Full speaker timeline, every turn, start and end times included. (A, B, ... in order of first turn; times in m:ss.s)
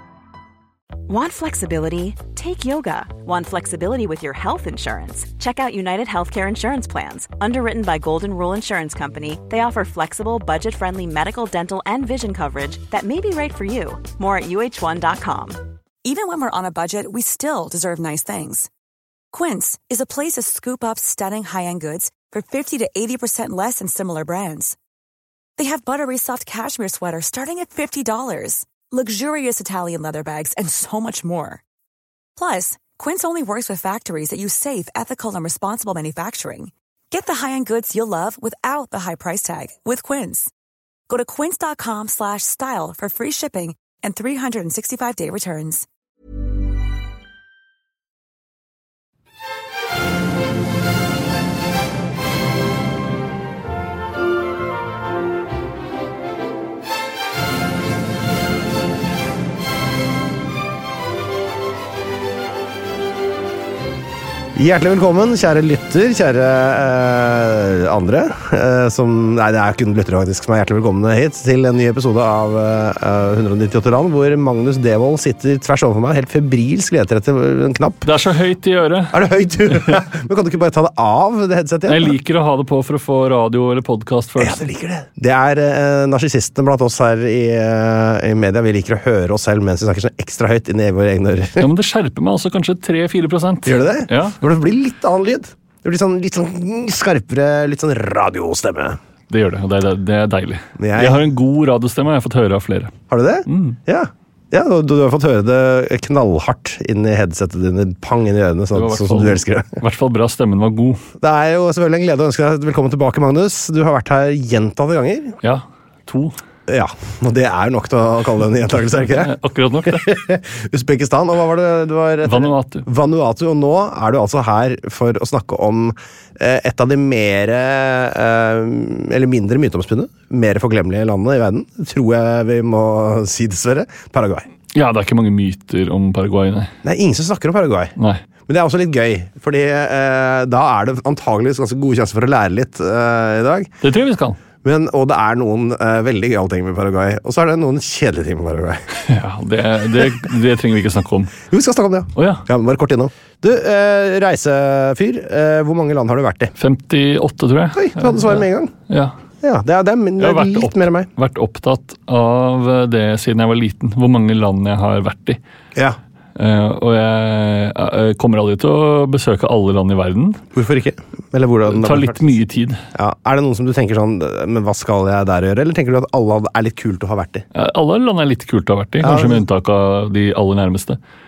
0:01.1-0:15.6 A
0:16.0-0:18.7 B
0:19.3-0:24.8 B
0:25.6-0:31.6 B
0:32.4-0:40.5 B
0:41.1-0:45.8 B
1:04.6-1:18.1 C
1:18.0-1:20.0 D
1:19.1-1:22.1 C
1:21.9-1:24.6 D
1:24.4-1:31.7 C
1:31.6-1:34.4 D
1:33.6-1:39.0 C
1:39.3-1:42.9 D
1:40.8-1:41.2 C
1:43.1-1:49.8 C
1:43.4-1:43.8 D
1:48.7-1:51.0 D
1:51.2-1:55.4 C
1:55.4-1:56.4 D
1:56.7-1:59.3 C
1:58.9-2:00.1 D
1:59.9-2:14.5 C
2:02.2-2:02.9 D
2:14.7-2:16.7 D
2:16.8-2:17.9 C
2:18.0-2:18.2 D
2:18.5-2:23.7 C
2:23.8-2:24.4 D
2:24.6-2:28.9 C
2:29.0-2:31.3 D
2:31.5-2:36.5 C
2:32.1-2:32.4 D
2:36.6-2:39.2 D
2:37.7-2:38.7 C
2:39.4-2:41.1 C
2:40.2-2:45.4 D
2:46.3-2:50.4 D
2:50.5-2:52.3 C
2:51.7-2:52.8 D
2:52.9-2:57.4 C
2:57.5-3:01.0 D
2:59.0-2:59.4 C